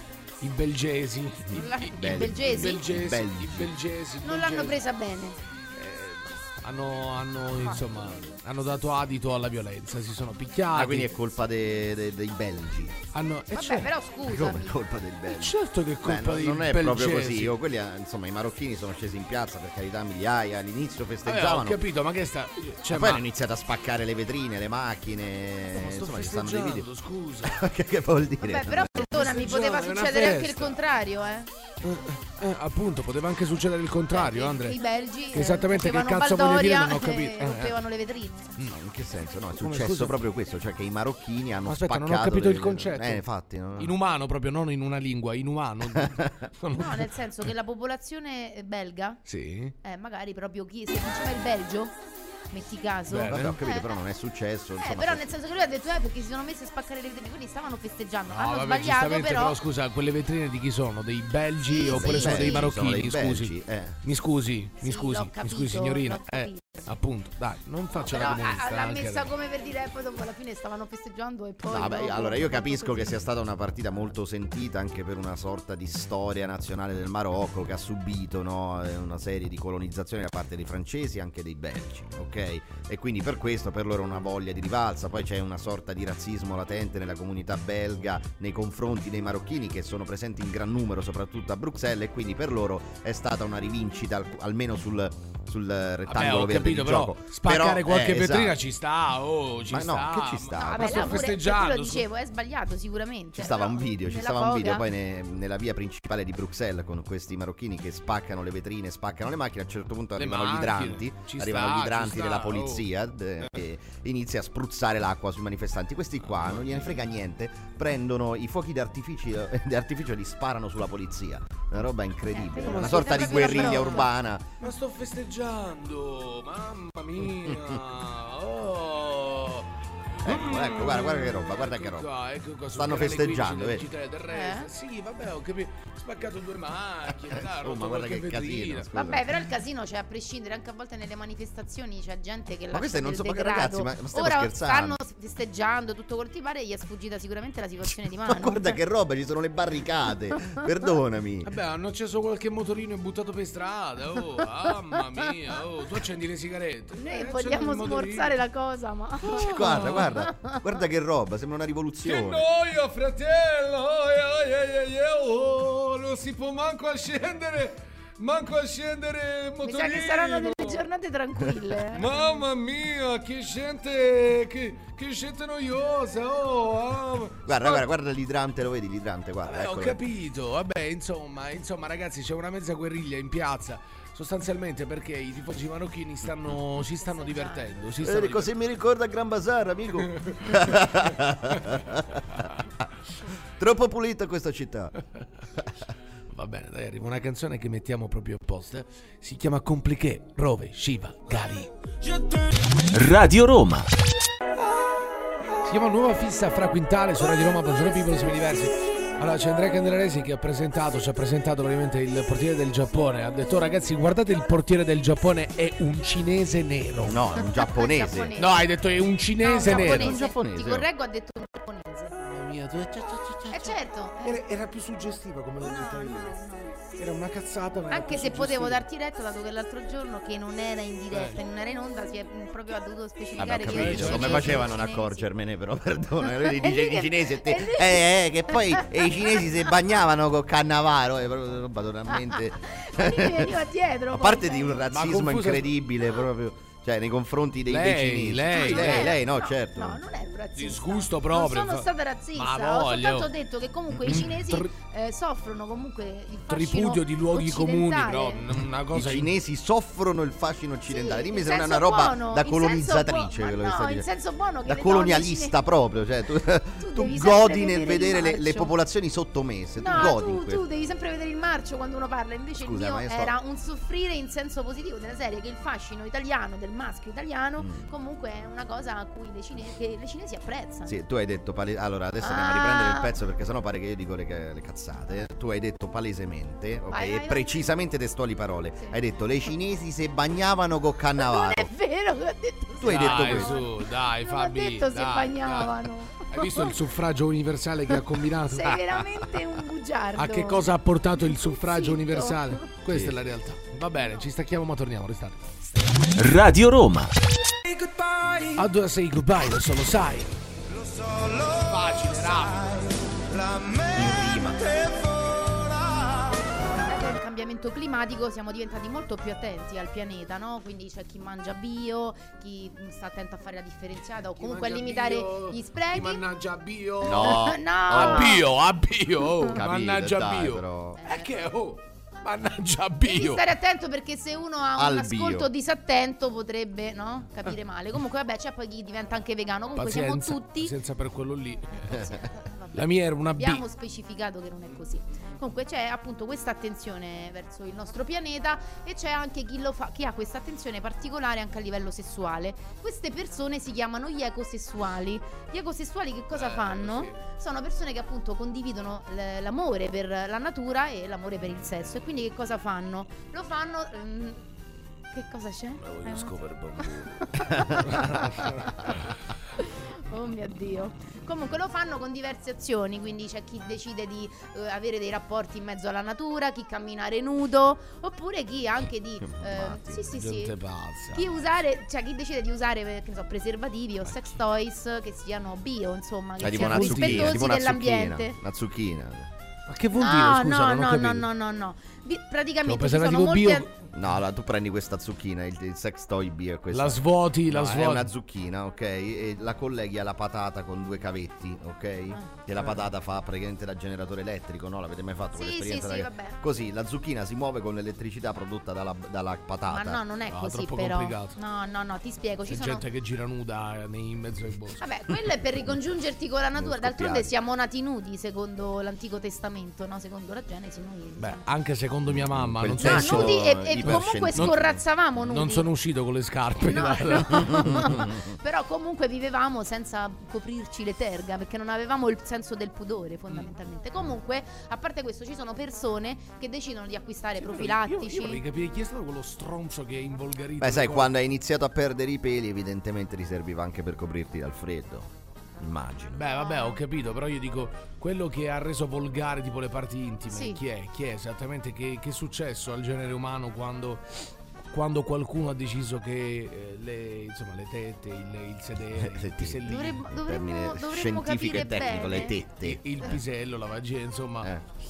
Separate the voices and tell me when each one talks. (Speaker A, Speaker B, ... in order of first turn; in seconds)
Speaker A: 0.4-4.8, 5.7-11.1, 13.1-13.9, 15.3-17.6, 21.2-23.2, 25.7-27.6, 29.1-30.8, 31.8-34.8, 35.3-37.8, 39.6-40.2, 41.6-43.2, 43.8-47.2, 49.2-49.8, 53.1-53.6, 58.3-69.3, 96.1-102.0, 110.2-112.9, 116.2-116.9, 122.6-124.0, 124.6-138.9, 151.4-158.3, 159.4-160.0, 162.0-170.8, 171.9-177.8, 179.4-188.5, 190.2-190.7, 196.3-201.7, 205.6-217.2, 218.4-220.2, 222.2-226.3, 227.0-228.8, 231.1-231.4, 233.6-234.6, 244.9-245.7, 247.7-249.1, 250.6-253.3, 254.0-254.7, 256.5-259.3, 292.8-298.8, 300.1-305.5, 308.5-310.3, 311.3-313.2, 324.4-333.4, 339.7-342.0, 342.7-343.6, 356.3-357.2, 365.8-369.1, 380.1-381.3, 384.1-384.3, 386.4-387.5, 389.7-391.2, 392.6-393.7, 396.7-398.1, 410.3-411.4, 412.5-414.8, 421.2-424.6, 425.2-427.9, 437.4-441.1, 446.1-460.0, 462.5-464.5
Speaker B: 1.5-2.9, 4.2-5.4, 7.6-7.8, 13.5-14.7, 28.4-31.5, 34.1-38.6, 46.7-49.2, 49.8-52.0, 52.5-54.0, 54.8-59.6, 61.7-62.7, 64.8-66.9, 68.0-73.3, 100.6-104.8, 122.3-124.1, 134.3-134.7, 138.9-148.8, 156.9-160.6, 169.6-172.4, 187.0-187.9, 217.4-218.7, 219.4-222.1, 223.5-224.4, 225.6-226.8, 227.9-235.3, 236.2-239.4, 242.2-244.8, 248.5-258.4, 260.9-265.6, 266.8-268.7, 269.8-281.0, 282.2-283.1, 286.9-287.5, 291.2-296.8, 298.5-302.7, 316.9-326.2, 327.1-328.4, 331.0-331.3, 333.0-340.7, 341.7-364.6, 365.1-369.0, 369.6-380.6, 381.1-388.4, 390.0-393.7, 405.3-406.4, 409.7-412.8, 414.8-421.4, 422.8-425.7, 426.6-438.4, 446.3-446.8, 450.3-450.6, 459.6-462.4
Speaker C: 1.5-3.7, 10.7-13.0, 14.2-21.8, 22.9-26.9, 27.4-29.1, 38.7-44.0, 45.9-46.5, 53.2-55.3, 61.9-64.0, 71.7-98.6, 99.7-101.3, 103.3-124.5, 127.4-127.7, 130.2-132.1, 132.7-133.8, 137.3-139.2, 142.7-145.0, 148.2-151.5, 159.2-162.4, 177.4-180.0, 188.0-192.5, 193.6-194.9, 217.1-218.3, 219.6-220.8, 233.4-243.6, 244.1-250.0, 253.9-254.3, 258.9-264.0, 264.6-270.6, 272.6-273.3, 277.6-277.9, 280.9-291.7, 292.8-293.5, 302.9-303.2, 313.9-314.6, 327.0-328.4, 329.5-331.0, 334.8-335.5, 379.2-380.1, 386.4-389.3, 393.9-410.0, 416.5-417.3, 422.1-424.8, 427.6-428.3, 440.6-446.3, 458.9-463.1
Speaker D: 202.9-203.9, 306.1-307.1